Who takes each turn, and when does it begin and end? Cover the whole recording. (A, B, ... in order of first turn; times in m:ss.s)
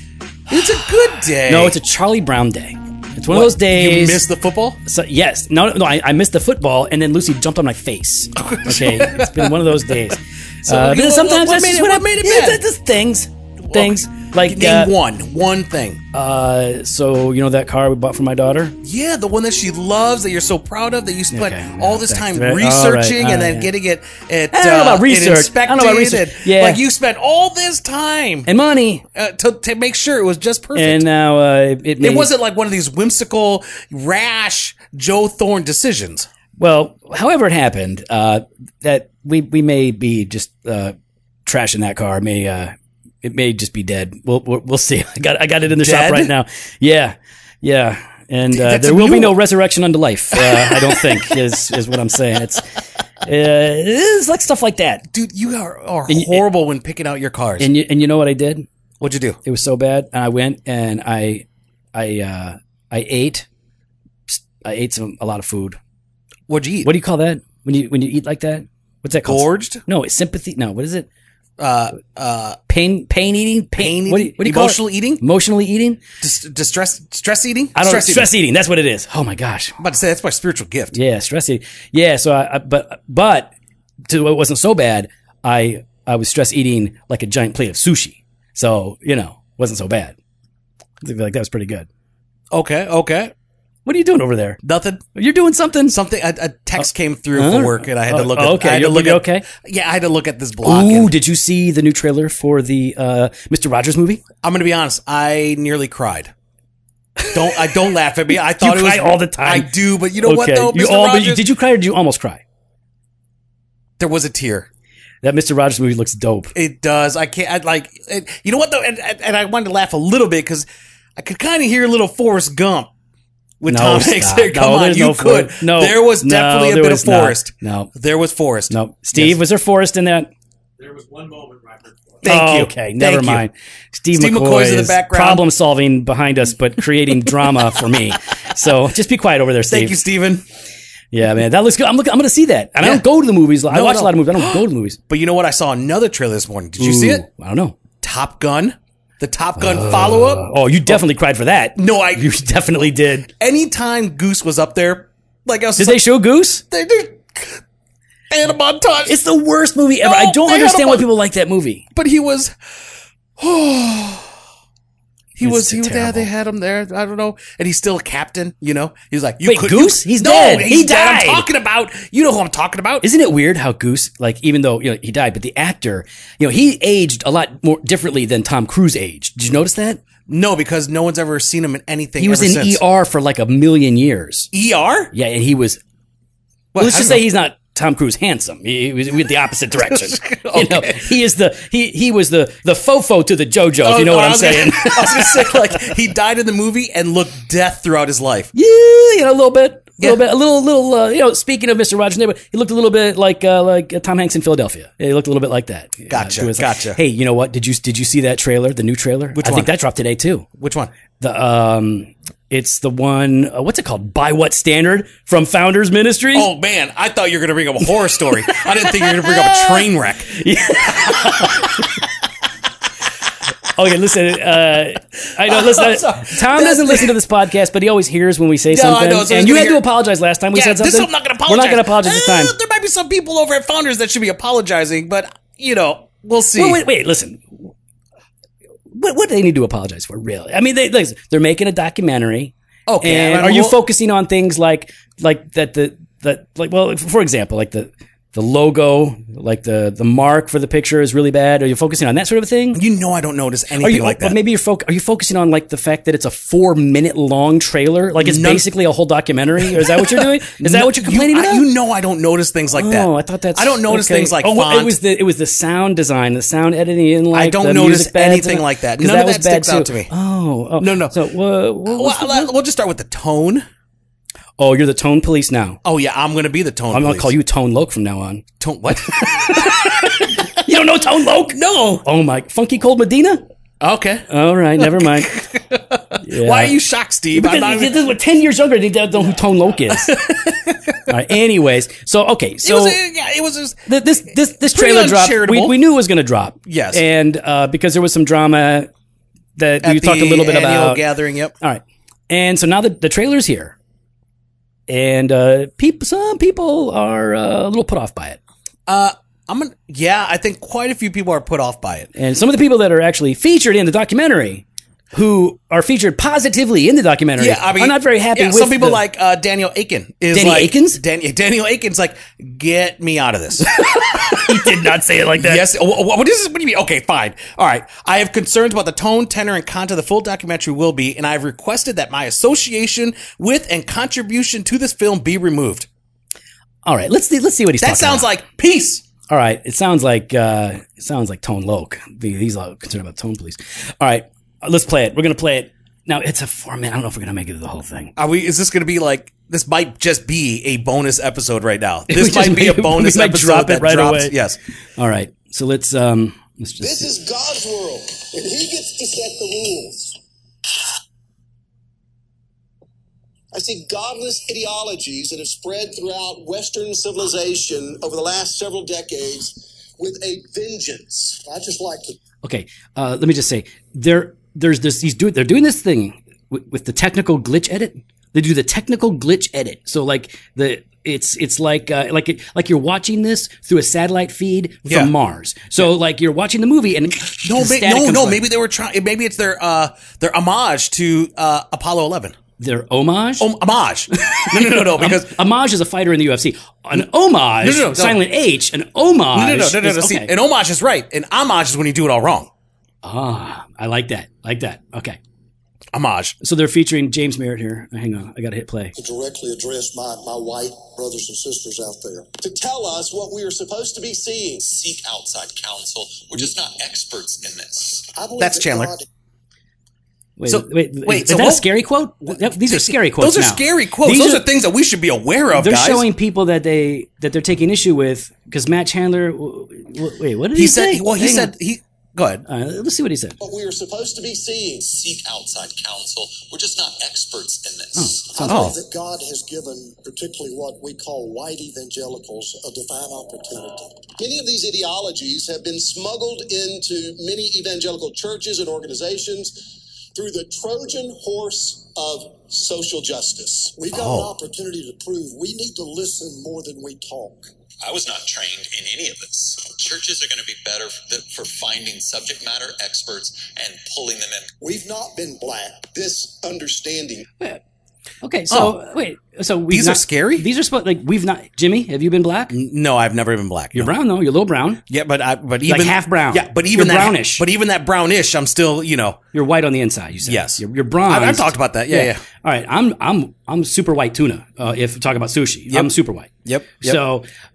0:00.5-0:01.8 A
0:01.4-0:04.3 B
0:03.2-0:04.8 A
0:04.8-0:14.9 B
0:08.4-0:09.6 A
0:10.7-0:12.6 A
0:13.6-0:16.0 A
0:16.1-0:18.8 B
0:18.8-0:28.5 A
0:21.3-0:23.7 B
0:24.5-0:26.8 B
0:28.4-0:29.0 B
0:29.1-0:31.0 A
0:30.7-0:32.3 B
0:32.0-0:36.3 A
0:36.6-0:41.0 B
0:41.5-0:52.6 B
0:45.7-0:46.3 A
0:48.5-0:49.4 A
0:50.3-0:51.4 A
0:53.2-0:55.1 B
0:55.1-0:57.7 A
0:56.1-0:56.4 B
0:57.6-0:58.7 B
0:59.0-0:59.4 A
0:59.4-1:03.5 B
1:04.3-1:05.8 B
1:06.5-1:06.9 A
1:06.8-1:11.1 B
1:09.2-1:09.8 A
1:11.6-1:12.6 A
1:12.7-1:16.0 B
1:13.8-1:15.2 A
1:16.2-1:18.3 A
1:17.8-1:19.8 B
1:19.8-1:21.0 A
1:20.9-1:23.5 B
1:24.1-1:30.2 B
1:31.0-1:31.9 B
1:32.5-1:33.3 A
1:33.8-1:34.6 B
1:34.6-1:35.0 A
1:35.2-1:36.0 B
1:35.9-1:41.1 A
1:36.8-1:39.4 B
1:40.6-1:44.2 B
1:44.4-1:46.3 A
1:47.2-1:47.7 B
1:47.3-1:51.4 A
1:48.6-1:52.4 B
1:54.0-1:54.7 A
1:55.2-1:56.5 B
1:56.5-2:02.9 A
2:03.6-2:09.4 A
2:03.7-2:07.9 B
2:08.7-2:10.3 B
2:12.2-2:13.4 A
2:12.2-2:20.0 B
2:14.1-2:15.4 A
2:19.7-2:20.4 A
2:21.1-2:25.0 B
2:23.7-2:27.2 A
2:26.8-2:27.8 B
2:28.0-2:31.0 A
2:29.6-2:33.3 B
2:31.8-2:32.3 A
2:33.4-2:36.0 A
2:35.8-2:36.6 B
2:36.7-2:37.6 A
2:38.3-2:39.2 A
2:39.0-2:41.8 B
2:40.0-2:41.1 A
2:41.9-2:42.5 A
2:43.4-2:44.3 A
2:45.3-2:53.0 A
2:45.4-2:46.3 B
2:49.4-2:51.5 B
2:53.0-3:00.0 B
3:00.3-3:02.8 A
3:02.2-3:04.5 B
3:04.5-3:05.1 A
3:05.1-3:05.8 B
3:06.7-3:07.2 A
3:06.8-3:15.9 B
3:09.7-3:11.1 A
3:13.8-3:18.5 A
3:18.5-3:30.5 B
3:26.1-3:27.0 A
3:29.3-3:29.7 A
3:30.6-3:30.9 A
3:31.2-3:36.5 B
3:36.3-3:41.9 A
3:38.5-3:41.9 B
3:43.7-3:52.5 B
3:45.4-3:47.2 A
3:48.7-3:49.8 A
3:50.5-3:56.8 A
3:56.5-3:57.7 B
3:58.9-4:12.8 B
4:02.9-4:03.8 A
4:12.7-4:14.4 A
4:13.8-4:21.7 B
4:18.2-4:18.7 A
4:19.6-4:25.0 A
4:22.7-4:32.5 B
4:27.3-4:30.1 A
4:30.8-4:31.2 A
4:31.9-4:33.7 A
4:34.6-4:35.8 B
4:35.8-4:37.4 A
4:36.9-4:38.4 B
4:38.6-4:40.4 A
4:39.0-4:43.4 B
4:41.5-4:42.0 A
4:43.8-4:44.3 A
4:44.3-4:45.4 B
4:44.8-4:48.0 A
4:46.2-4:46.8 B
4:47.3-4:50.2 B
4:49.9-4:51.1 A
4:51.1-4:53.0 B
4:52.6-4:53.9 A
4:53.9-4:58.9 B
4:54.6-4:55.8 A
4:56.7-4:57.0 A
4:59.6-5:01.0 B
4:59.8-5:01.5 A
5:01.6-5:03.8 B
5:04.9-5:08.4 B
5:08.9-5:12.1 A
5:12.2-5:19.0 B
5:17.4-5:35.9 A
5:20.3-5:21.0 B
5:23.7-5:25.7 B
5:36.8-5:38.3 B
5:37.8-5:39.0 A
5:39.3-5:48.1 B
5:48.2-5:54.6 A
5:52.1-5:54.4 B
5:55.0-5:57.0 B
5:56.8-6:00.2 C
6:03.5-6:12.2 C
6:12.4-6:28.4 B
6:24.8-6:25.1 A
6:27.4-6:32.4 A
6:32.6-6:33.5 B
6:33.4-6:35.4 A
6:34.3-6:40.3 B
6:37.6-6:38.2 A
6:39.3-6:42.5 A
6:43.0-6:45.2 B
6:45.9-6:46.4 A
6:46.4-6:48.9 B
6:48.9-6:54.7 C
6:54.7-6:58.0 D
6:58.1-6:59.1 C
6:58.4-6:58.9 A
7:00.4-7:04.4 B
7:00.5-7:01.7 A
7:02.2-7:06.1 A
7:05.6-7:11.5 B
7:10.5-7:12.4 A
7:12.5-7:13.4 B
7:13.4-7:14.9 C
7:15.2-7:16.1 D
7:17.2-7:18.0 D
7:18.0-7:18.2 B
7:18.2-7:37.5 C
7:18.4-7:18.8 A
7:33.9-7:34.4 A
7:37.9-7:39.7 D
7:44.6-7:47.3 C
7:48.2-7:52.5 B
7:48.5-7:48.8 A
7:49.7-7:50.5 A
7:52.5-7:53.9 A
7:53.7-7:54.8 B
7:54.9-7:59.2 A
7:55.7-7:57.4 B
7:59.3-8:07.3 B
8:00.2-8:02.2 A
8:06.4-8:07.0 A